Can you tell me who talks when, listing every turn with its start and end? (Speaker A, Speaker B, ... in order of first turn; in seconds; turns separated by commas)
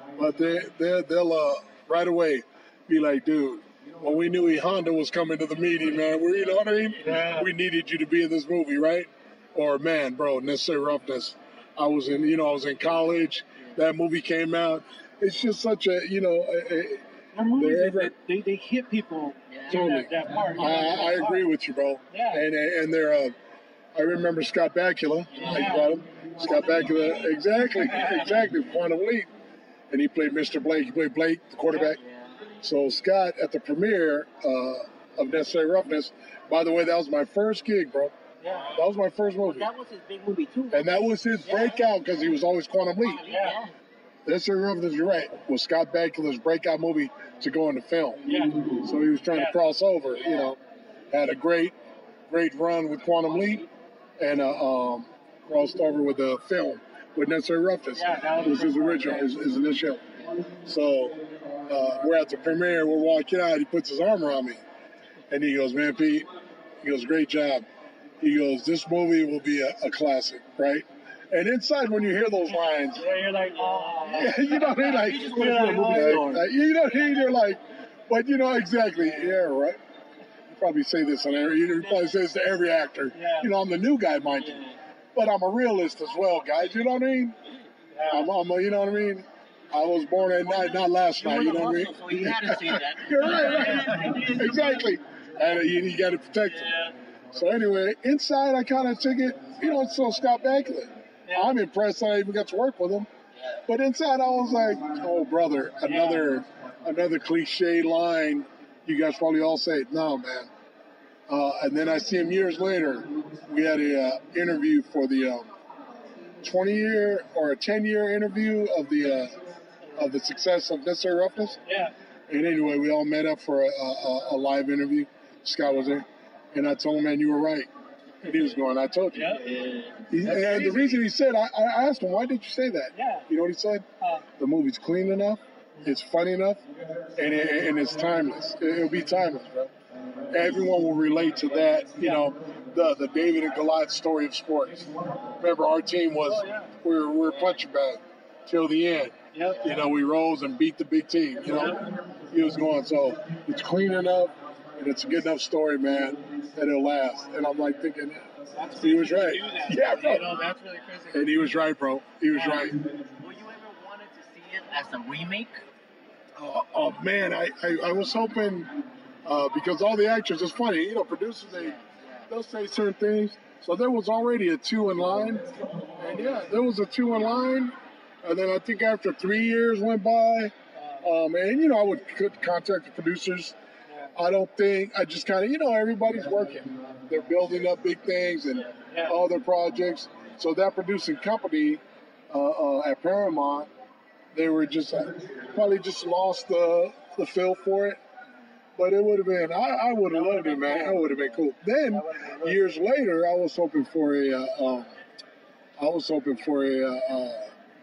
Speaker A: 0.2-18.1, Speaker B: 7.0-7.5, Speaker B: 17.3-21.5, Speaker C: 19.5-19.9, Speaker A: 19.7-23.4, Speaker B: 22.1-22.4, Speaker A: 23.9-29.3, Speaker C: 25.3-25.7, Speaker B: 25.4-25.9, Speaker C: 26.4-26.9, Speaker B: 27.9-28.3, Speaker A: 29.9-32.0, Speaker C: 31.7-32.4, Speaker A: 32.6-38.1, Speaker B: 38.4-38.7, Speaker C: 38.5-38.9, Speaker A: 38.8-39.7, Speaker C: 39.4-41.9, Speaker A: 40.7-43.2, Speaker C: 43.0-43.7, Speaker B: 43.3-43.6, Speaker A: 44.3-50.6, Speaker B: 48.2-48.7, Speaker B: 49.3-49.6, Speaker A: 51.1-51.8, Speaker A: 52.3-53.7, Speaker C: 53.4-53.6, Speaker A: 54.2-64.6, Speaker B: 58.0-59.4, Speaker A: 65.3-66.3, Speaker A: 66.8-67.7, Speaker A: 68.2-73.1, Speaker B: 73.0-76.5, Speaker C: 73.6-76.4, Speaker A: 74.1-79.8, Speaker A: 80.5-84.6, Speaker B: 83.1-83.5, Speaker C: 84.4-84.8, Speaker A: 85.2-87.4, Speaker B: 87.9-88.3, Speaker A: 88.1-96.7, Speaker C: 91.2-94.9, Speaker B: 93.2-94.4, Speaker C: 96.6-96.9, Speaker A: 97.3-103.1, Speaker B: 101.3-101.6, Speaker A: 103.7-110.5, Speaker B: 105.8-106.3, Speaker A: 111.3-115.5, Speaker A: 116.4-119.4, Speaker A: 120.0-121.6, Speaker B: 121.7-121.9, Speaker A: 122.3-127.7, Speaker A: 128.2-129.4, Speaker B: 129.1-129.5, Speaker C: 129.3-130.1, Speaker A: 130.1-133.9, Speaker B: 130.2-131.0, Speaker B: 132.9-133.3, Speaker B: 134.0-134.2, Speaker A: 134.4-136.6, Speaker A: 137.2-139.7, Speaker A: 140.3-158.3, Speaker B: 141.8-142.3, Speaker B: 146.2-146.7, Speaker B: 149.3-149.8, Speaker B: 151.4-151.9, Speaker B: 158.5-161.4, Speaker A: 158.8-160.3, Speaker A: 161.1-162.8, Speaker B: 162.3-162.7, Speaker C: 163.2-165.6, Speaker A: 166.4-171.8, Speaker C: 171.5-172.3, Speaker A: 172.3-183.6, Speaker B: 180.8-181.1, Speaker B: 183.9-184.1, Speaker A: 184.2-193.7, Speaker B: 188.9-189.2, Speaker A: 194.3-198.0, Speaker A: 198.8-204.9, Speaker B: 200.1-201.2, Speaker B: 201.9-202.8, Speaker A: 205.8-207.5